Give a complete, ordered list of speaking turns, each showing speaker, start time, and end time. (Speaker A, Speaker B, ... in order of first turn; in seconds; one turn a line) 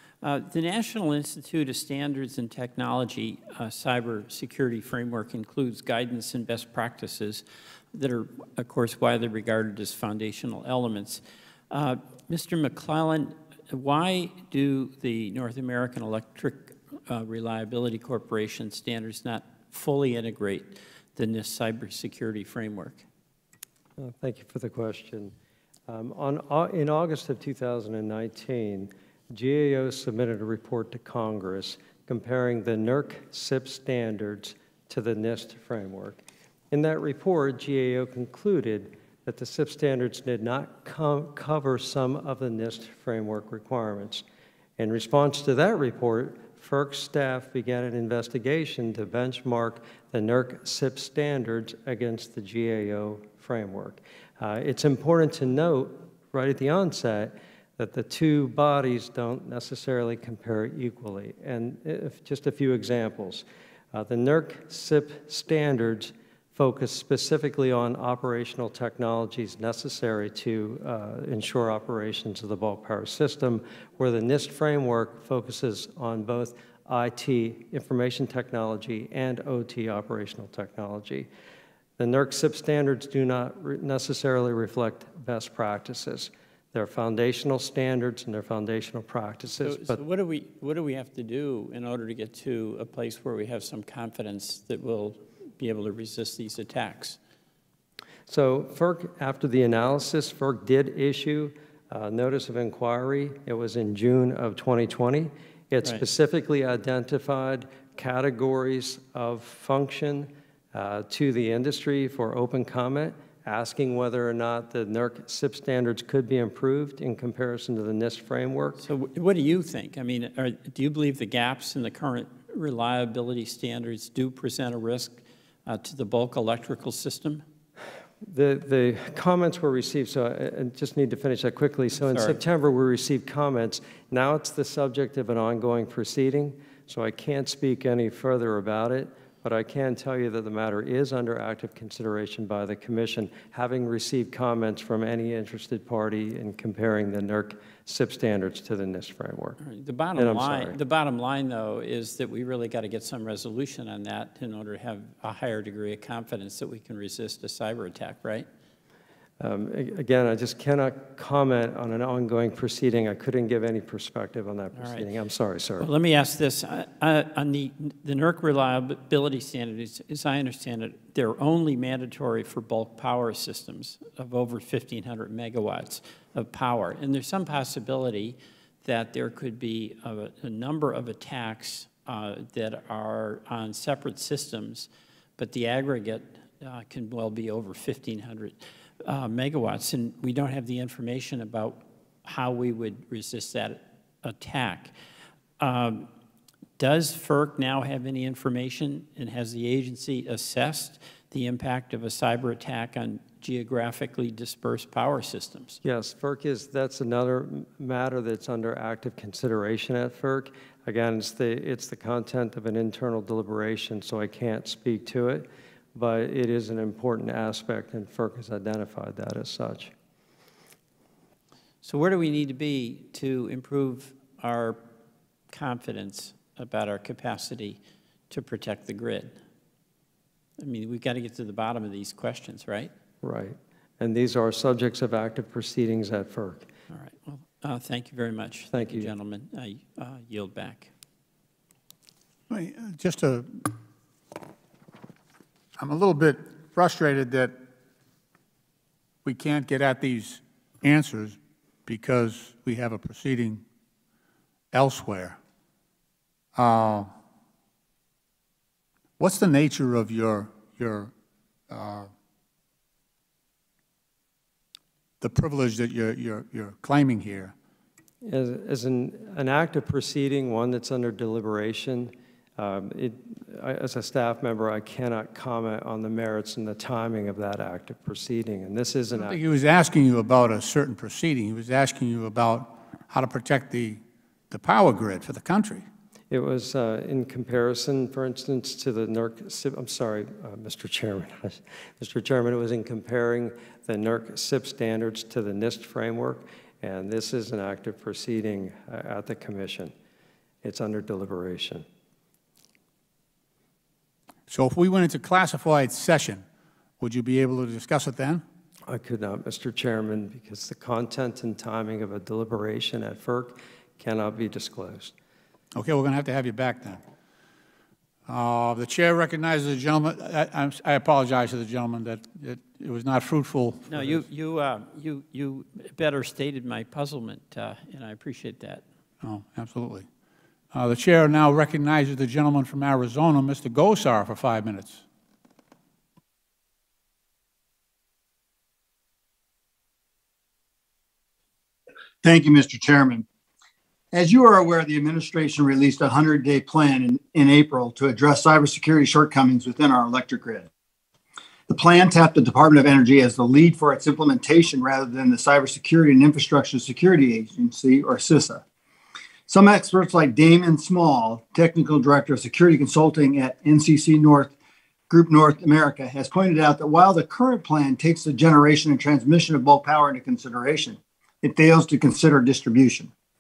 Speaker A: 0.2-23.0
Speaker B: 24.0-25.3
Speaker B: 25.9-44.2
Speaker B: 44.8-81.3
Speaker B: 82.0-90.0
Speaker A: 89.6-97.2
Speaker B: 98.3-118.8
Speaker A: 118.8-127.4
Speaker B: 128.2-149.6
Speaker A: 132.0-132.4
Speaker A: 149.6-158.5
Speaker B: 150.1-150.8
Speaker B: 159.4-165.9
Speaker A: 164.7-165.1
Speaker A: 165.8-194.9
Speaker A: 195.6-196.1
Speaker A: 196.8-205.8
Speaker B: 205.8-219.9
Speaker A: 221.8-224.8
Speaker A: 225.5-229.4
Speaker A: 230.6-232.9
Speaker B: 233.2-236.7
Speaker A: 236.9-240.9
Speaker B: 238.7-239.1
Speaker C: 242.5-243.6
Speaker C: 245.8-247.6
Speaker C: 249.2-253.6
Speaker C: 254.7-255.4
Speaker C: 256.6-257.1
Speaker C: 259.2-261.1
Speaker C: 261.7-262.1
Speaker C: 265.2-267.5
Speaker B: 268.2-279.4
Speaker C: 279.1-285.9
Speaker B: 286.3-299.9
Speaker B: 300.6-301.9
Speaker C: 304.5-306.4
Speaker C: 307.0-308.4
Speaker B: 308.9-315.1
Speaker C: 315.8-317.0
Speaker C: 318.3-324.2
Speaker A: 323.9-328.8
Speaker C: 329.2-330.1
Speaker C: 330.7-335.0
Speaker D: 342.2-343.2
Speaker D: 344.1-350.7
Speaker D: 351.7-358.6
Speaker D: 359.5-364.5
Speaker D: 365.1-373.1